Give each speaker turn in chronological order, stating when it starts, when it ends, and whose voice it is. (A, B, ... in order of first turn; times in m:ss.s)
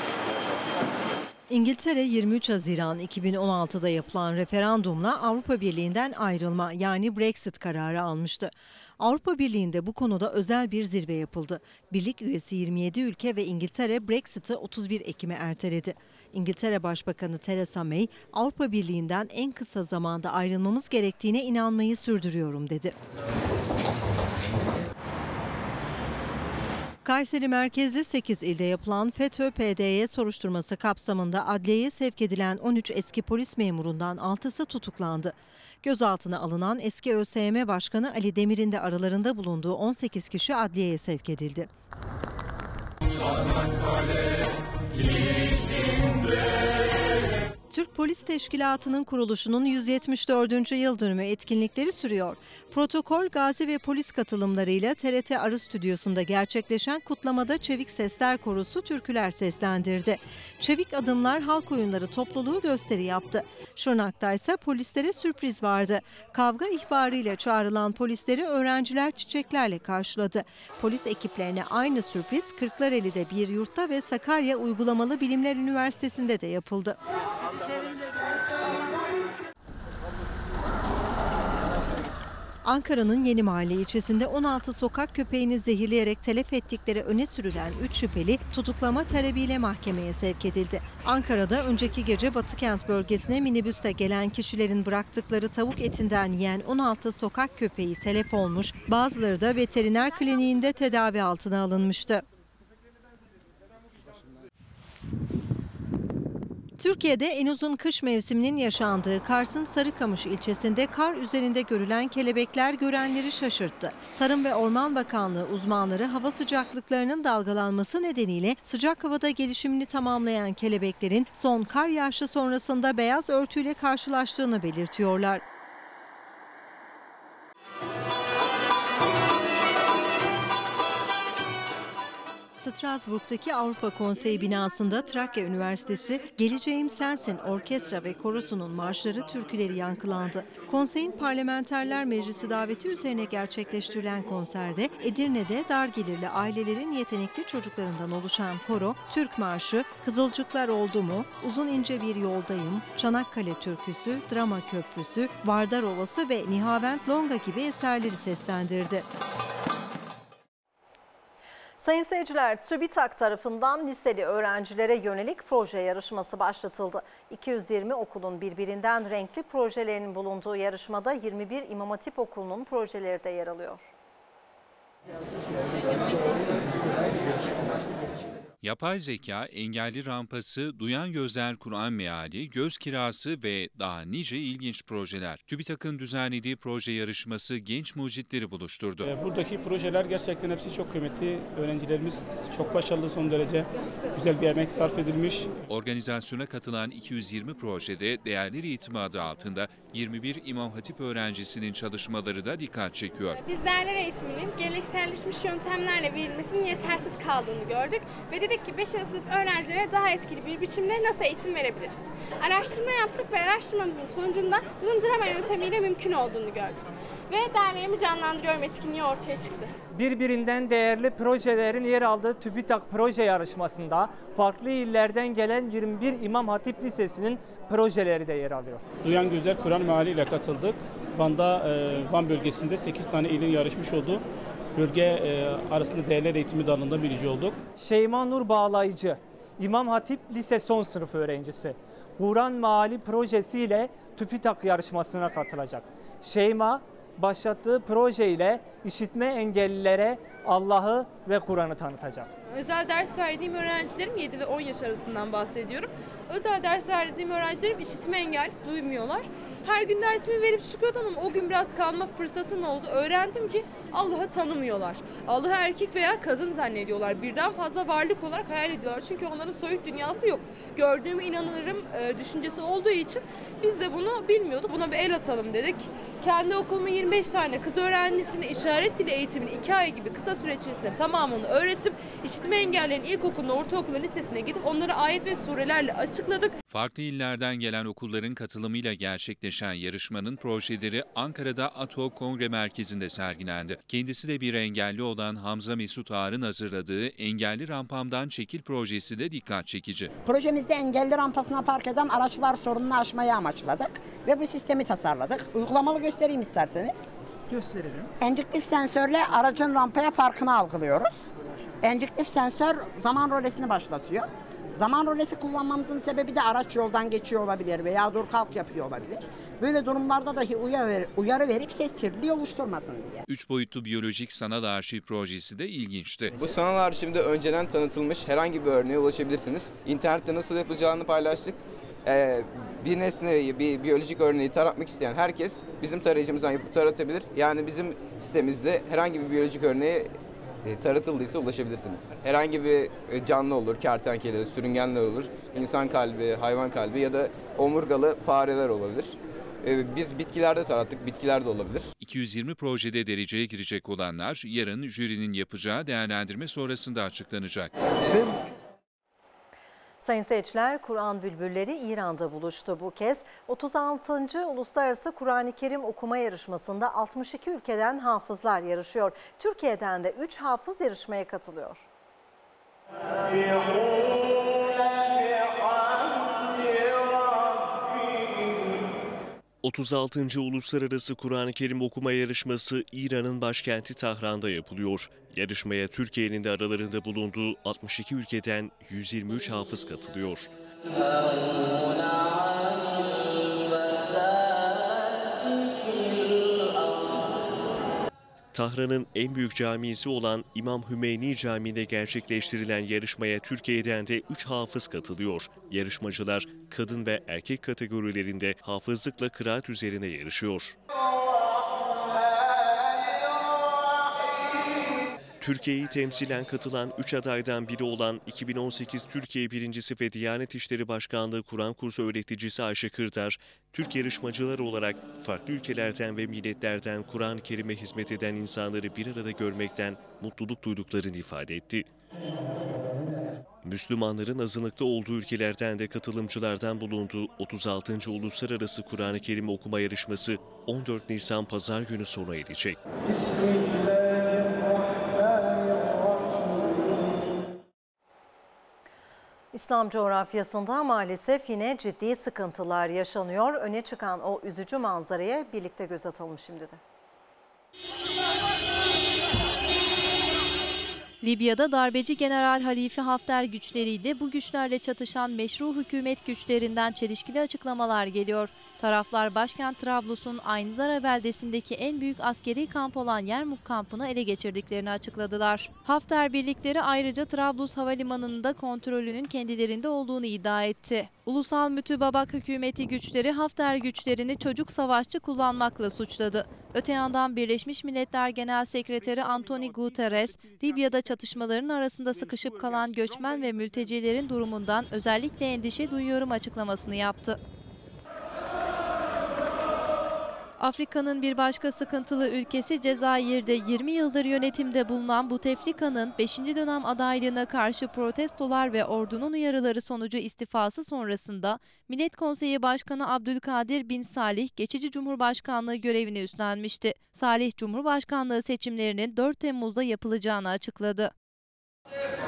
0:01.5-0:22.9 A
0:27.0-0:41.7 A
0:47.7-1:17.0 A
1:22.6-1:42.2 A
1:46.8-2:05.4 A
2:12.6-2:39.1 A
2:41.8-2:53.9 A
2:58.6-3:09.1 B
3:09.0-3:15.5 C
3:15.7-3:23.4 B
3:23.4-3:39.7 D
3:39.9-3:48.9 E
3:49.0-3:54.2 C
3:54.8-3:57.6 C
3:57.8-4:12.3 E
4:12.4-4:46.6 F
4:46.7-5:00.1 B
5:00.2-5:07.1 G
5:07.5-5:08.1 E
5:08.2-5:11.3 G
5:11.8-5:23.2 G
5:23.3-5:26.4 B
5:26.4-5:51.9 H
5:52.0-5:57.7 B
6:00.0-6:11.8 A
6:19.6-6:30.5 I
6:38.5-6:50.8 I
6:55.4-7:11.9 I
7:13.6-7:22.8 I
7:29.5-7:36.8 A
7:41.2-8:17.4 J
8:20.6-8:41.1 J